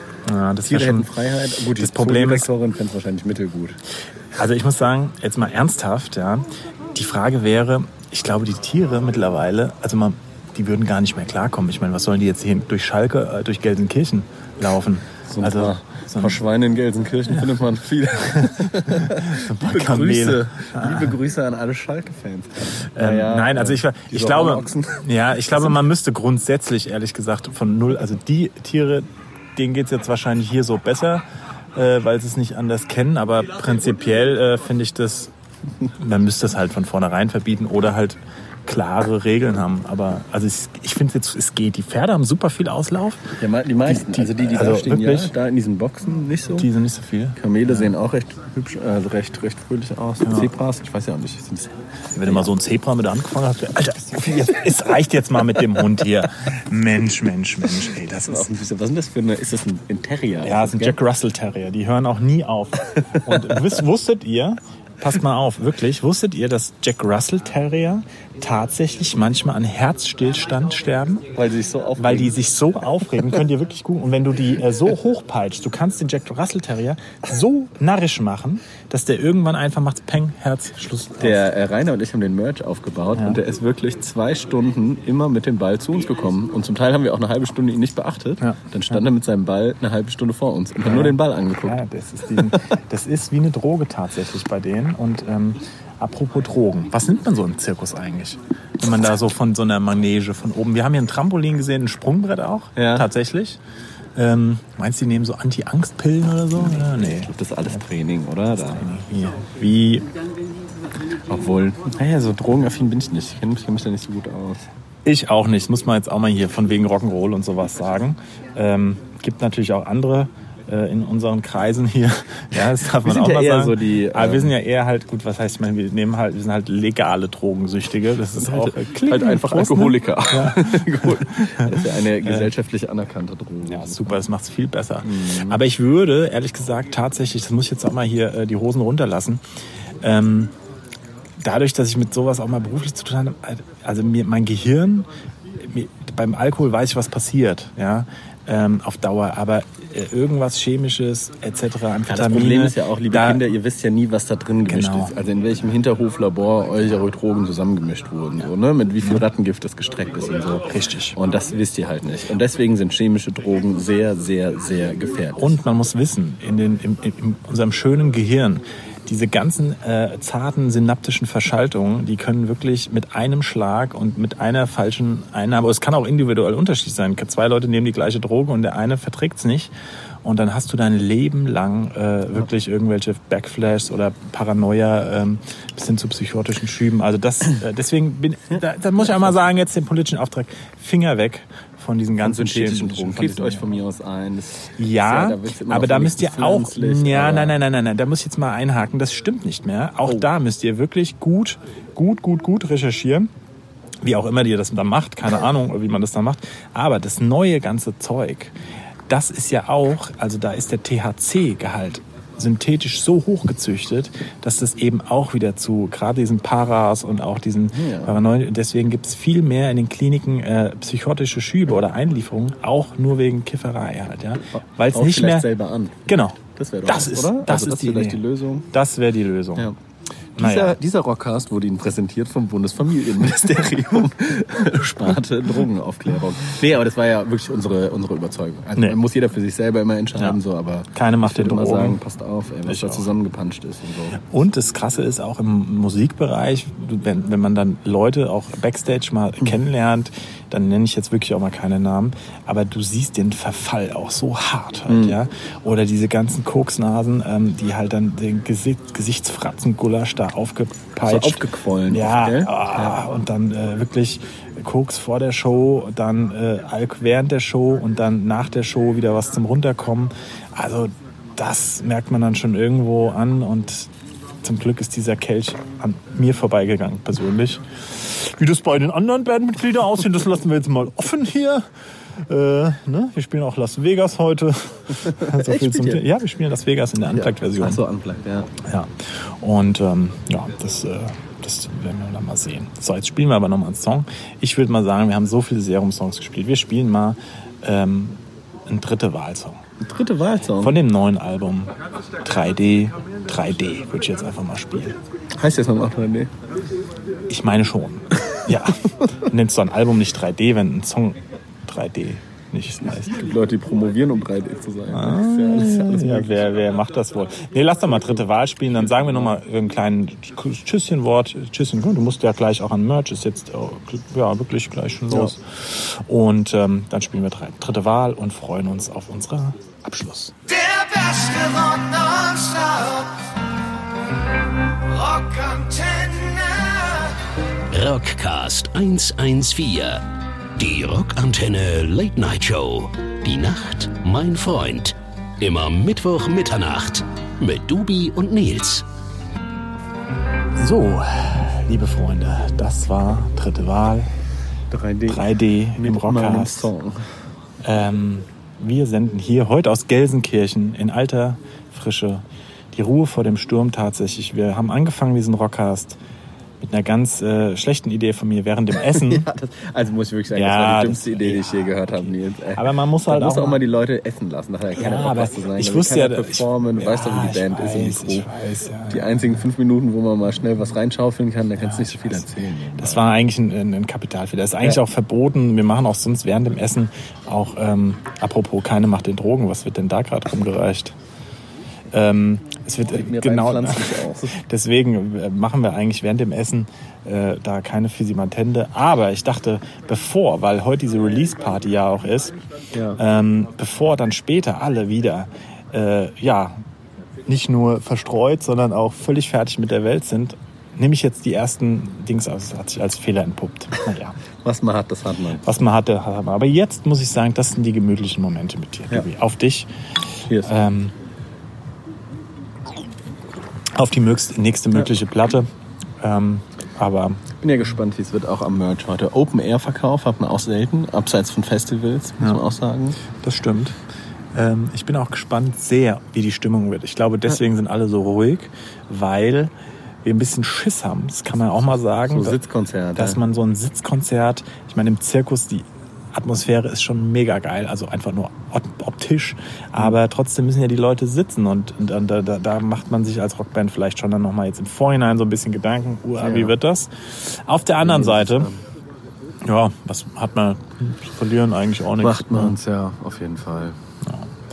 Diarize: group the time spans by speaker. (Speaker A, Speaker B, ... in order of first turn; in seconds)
Speaker A: 0.3-1.1, 1.6-2.5, 4.3-16.4, 18.9-21.1, 22.9-35.3, 36.0-43.3, 43.9-45.3, 46.6-47.9, 50.2-50.5, 52.1-58.5, 60.4-71.3, 72.0-81.5, 90.8-103.6, 104.2-107.3, 108.6-110.1, 115.0-132.5, 133.7-139.4, 140.0-140.5, 141.4-145.1, 145.6-153.4, 154.7-155.1, 160.7-161.2, 165.4-179.7, 180.2-193.7, 194.8-203.3, 204.0-208.6, 209.1-225.5, 226.1-229.7, 230.4-230.8, 240.9-242.0, 242.7-243.1, 244.2-273.9, 274.4-281.7, 282.2-287.8, 288.6-299.6, 300.5-305.0, 307.3-313.1, 314.9-330.3, 350.6-354.1, 355.1-356.7, 357.6-366.0, 366.6-369.2, 370.3-373.6, 374.7-379.4, 381.6-382.3, 382.8-391.0, 391.9-402.4, 403.0-406.6, 407.3-414.2, 415.4-419.7, 420.4-420.9, 423.8-425.5, 426.0-427.2, 433.1-433.8, 434.3-439.5, 440.0-442.4, 443.0-458.5, 459.4-462.6
Speaker B: 0.6-3.8, 15.3-25.8, 43.4-46.7, 47.4-52.5, 58.2-61.0, 63.2-63.5, 71.3-72.4, 81.2-91.8, 102.8-103.1, 106.9-108.9, 111.3-114.7, 123.0-124.5, 128.4-134.2, 135.0-135.6, 152.1-165.6, 192.2-197.6, 217.7-218.2, 224.5-228.7, 230.4-244.2, 254.9-255.2, 261.0-263.0, 285.0-286.0, 287.1-288.5, 299.8-300.8, 305.4-306.3, 312.8-316.4, 354.7-357.0, 368.8-378.3, 378.9-383.0, 392.9-394.4, 402.7-403.0, 414.4-415.6, 420.3-420.5, 427.4-433.0, 442.1-443.2, 456.2-456.5, 457.8-458.6, 462.0-463.8
Speaker C: 330.5-333.2, 334.9-337.2
Speaker D: 337.7-340.0, 340.6-348.8